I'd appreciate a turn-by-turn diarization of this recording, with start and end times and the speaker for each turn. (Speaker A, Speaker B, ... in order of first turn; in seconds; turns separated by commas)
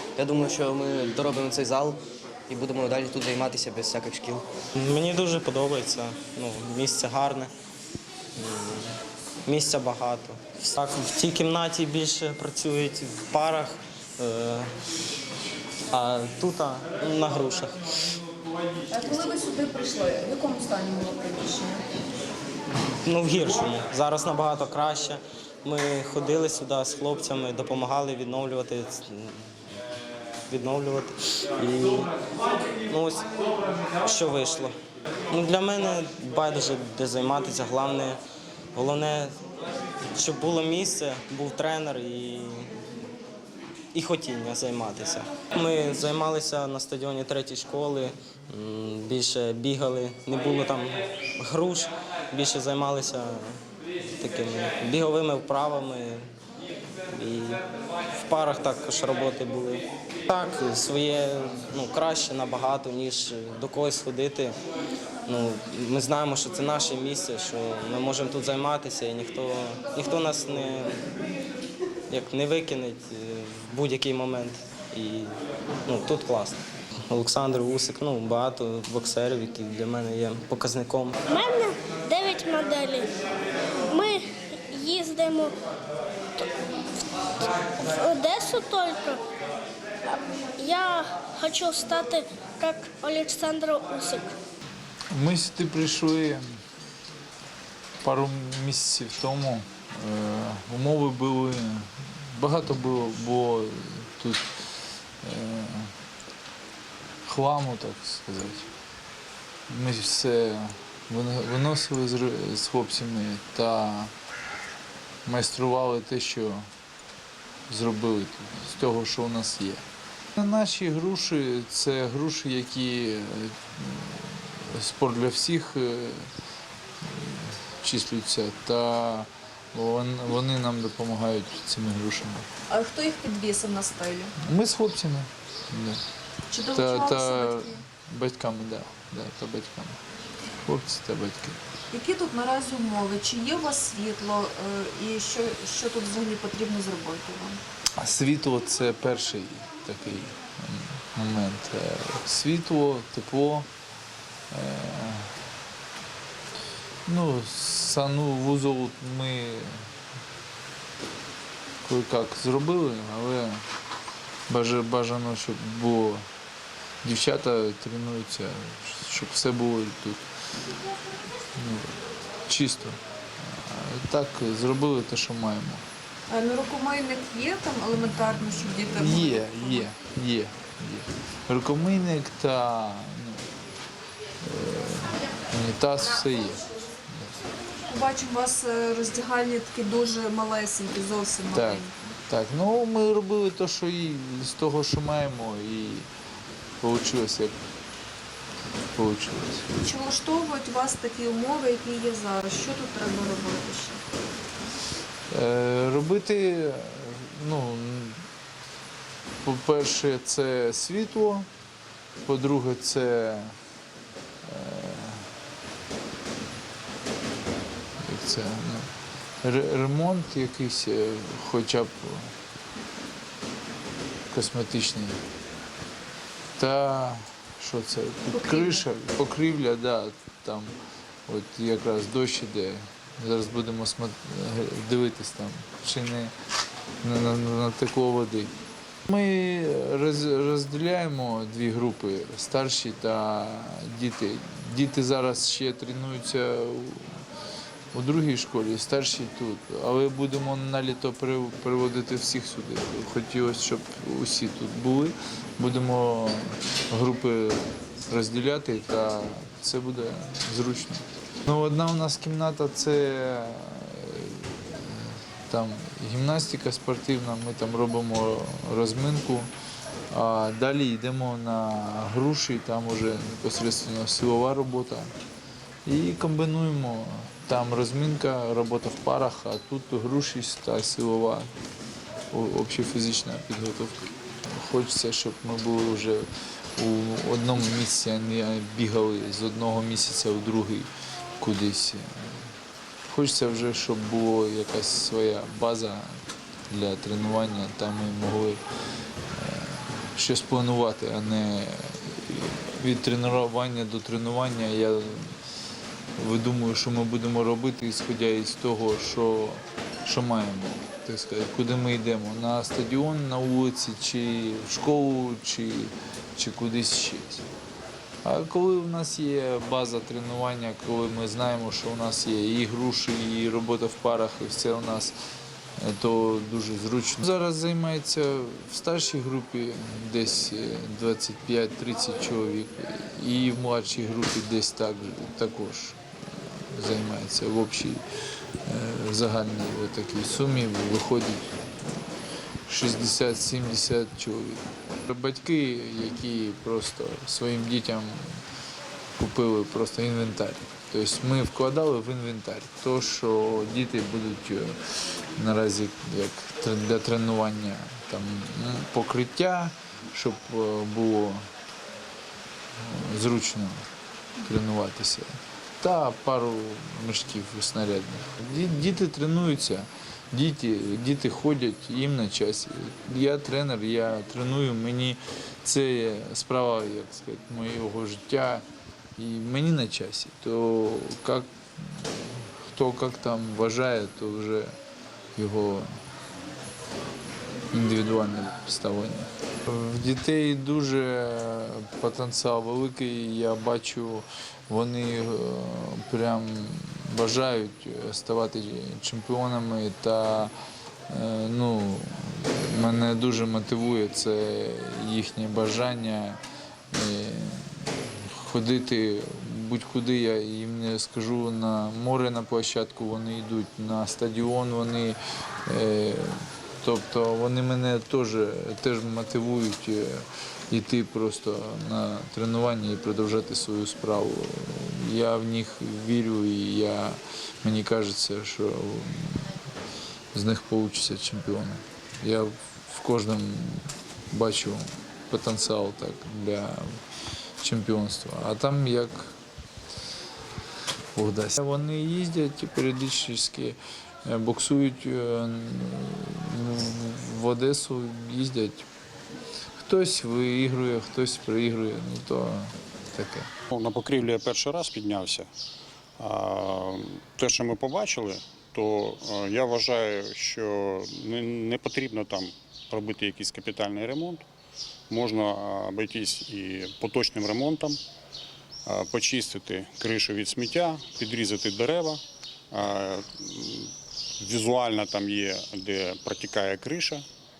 Speaker A: 0.2-4.5, Speaker B: 4.8-7.5, Speaker B: 8.4-8.9, Speaker B: 9.5-14.7, Speaker B: 15.9-17.9, Speaker C: 18.9-21.9, Speaker B: 23.0-29.4, Speaker B: 30.5-32.1, Speaker B: 32.8-33.3, Speaker B: 34.0-34.8, Speaker B: 35.3-38.2, Speaker B: 38.7-39.4, Speaker B: 40.1-42.7, Speaker B: 43.9-53.6, Speaker B: 54.2-56.3, Speaker B: 57.1-57.6, Speaker B: 58.1-64.6, Speaker B: 65.3-71.0, Speaker B: 72.1-75.3, Speaker B: 75.9-81.2, Speaker D: 81.3-83.1, Speaker D: 83.9-85.6, Speaker D: 87.5-89.2, Speaker D: 90.1-94.3, Speaker E: 95.1-96.6, Speaker E: 98.0-105.9, Speaker E: 107.2-108.7, Speaker E: 109.7-114.1, Speaker E: 115.3-116.7, Speaker E: 117.7-119.8, Speaker E: 120.4-126.3, Speaker E: 127.0-132.5, Speaker C: 132.7-134.3, Speaker E: 134.4-136.0, Speaker C: 136.5-137.8, Speaker E: 136.7-140.0, Speaker E: 140.6-141.6, Speaker C: 141.9-147.6, Speaker E: 148.0-153.7, Speaker E: 154.5-155.3, Speaker E: 157.1-159.8, Speaker E: 161.8-163.6, Speaker E: 164.5-166.3, Speaker E: 167.0-170.2, Speaker E: 171.6-175.8, Speaker C: 176.3-179.9, Speaker E: 178.9-183.6, Speaker E: 184.4-187.3, Speaker C: 187.9-192.2, Speaker E: 191.5-196.1, Speaker E: 196.8-197.6, Speaker E: 198.9-199.7, Speaker C: 199.8-204.0, Speaker E: 205.3-208.2, Speaker E: 209.4-211.5, Speaker E: 212.2-213.6, Speaker E: 214.4-215.3, Speaker E: 218.0-218.9, Speaker E: 219.4-222.3, Speaker E: 224.3-225.2, Speaker E: 226.6-230.7, Speaker C: 228.3-228.8, Speaker E: 231.3-236.3, Speaker E: 237.0-238.5, Speaker E: 239.1-247.2, Speaker E: 247.9-269.5, Speaker E: 270.1-275.1, Speaker E: 275.9-281.5, Speaker E: 282.3-290.9, Speaker E: 291.4-292.5, Speaker E: 293.1-298.6, Speaker E: 299.3-305.4, Speaker E: 306.2-317.4, Speaker E: 318.2-325.1, Speaker E: 325.8-338.0, Speaker E: 338.6-341.6, Speaker E: 342.7-348.4, Speaker E: 349.2-354.8, Speaker E: 355.4-361.5, Speaker E: 362.8-363.9, Speaker E: 364.4-378.6, Speaker E: 379.2-384.8, Speaker E: 385.4-386.0, Speaker E: 387.7-400.5, Speaker E: 401.1-406.4, Speaker E: 406.9-429.6, Speaker E: 430.3-437.0, Speaker E: 437.6-439.3, Speaker E: 441.1-448.9, Speaker E: 449.8-453.5, Speaker F: 453.7-455.5, Speaker F: 456.2-464.4, Speaker F: 465.1-468.0, Speaker F: 468.9-477.2